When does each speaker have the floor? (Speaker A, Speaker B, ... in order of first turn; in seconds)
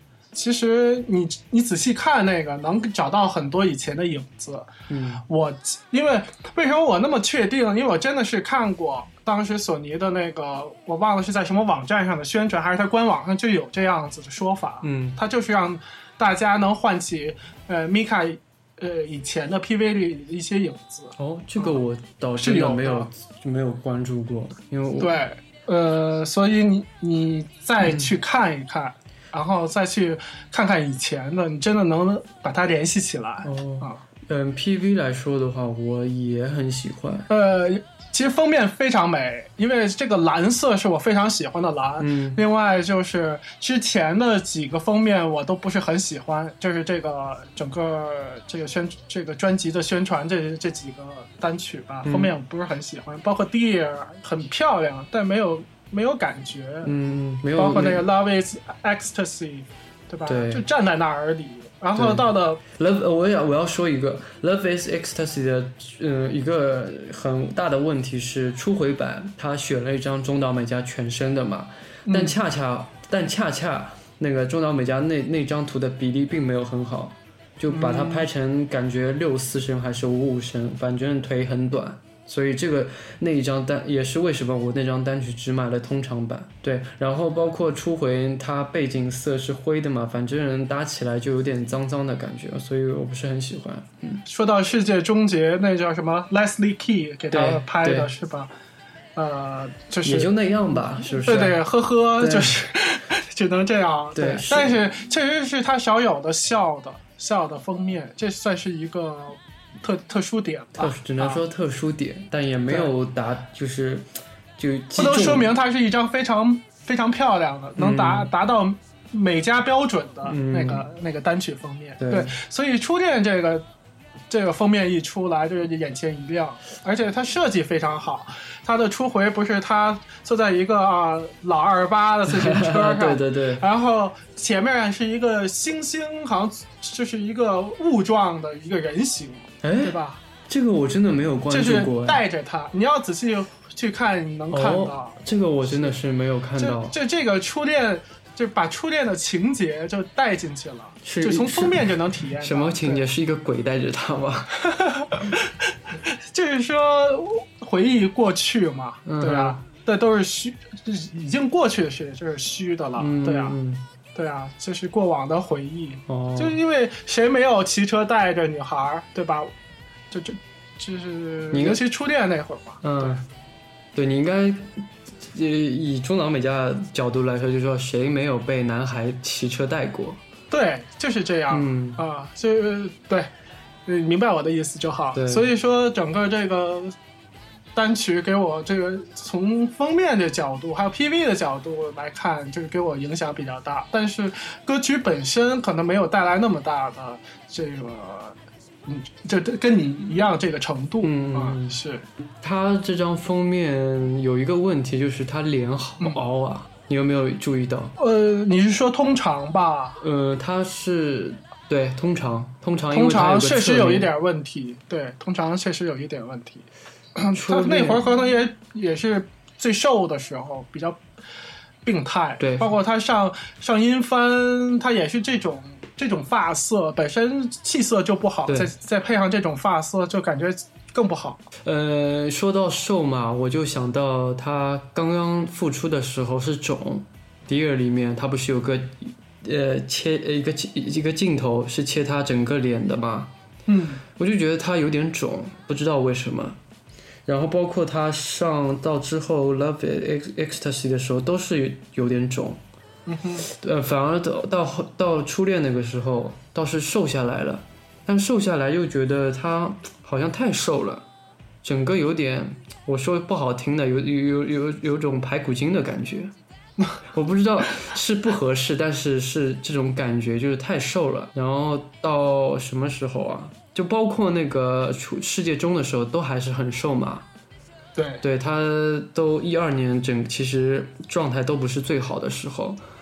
Speaker A: 0.3-4.7, 5.3-21.8, 22.4-23.1, 25.0-34.0, 37.3-56.9, 57.6-62.6, 72.1-72.4, 77.7-78.3, 94.3-98.5, 99.2-100.3, 101.2-111.4, 115.0-123.7, 124.3-140.2, 141.5-145.2, 146.6-153.1, 154.6-163.6, 164.2-169.5, 170.1-173.2, 180.5-183.3, 183.9-187.0, 187.8-202.0, 208.0-210.0, 212.9-221.0, 221.8-231.4, 243.7-244.0, 253.1-253.5, 278.0-278.2
Speaker B: 4.9-5.2, 14.8-15.2, 21.2-25.1, 27.8-28.1, 33.4-37.3, 42.0-42.4, 52.0-52.4, 56.9-58.1, 60.3-60.6, 62.0-94.2, 97.3-98.1, 100.0-101.6, 102.2-102.6, 104.2-104.8, 110.8-115.5, 117.8-118.3, 120.3-120.8, 122.0-122.3, 132.3-133.6, 139.6-142.2, 144.5-146.9, 151.0-151.8, 152.3-154.6, 159.1-159.6, 163.0-163.8, 166.1-166.6, 171.5-171.8, 172.8-173.2, 173.9-180.2, 181.5-182.0, 185.2-185.5, 201.0-201.8, 202.4-207.9, 210.0-214.1, 217.3-218.1, 222.4-222.7, 228.5-228.7, 231.6-243.3, 244.2-246.6, 247.3-252.6, 253.4-261.1, 261.6-266.3, 267.0-277.3, 278.2-282.8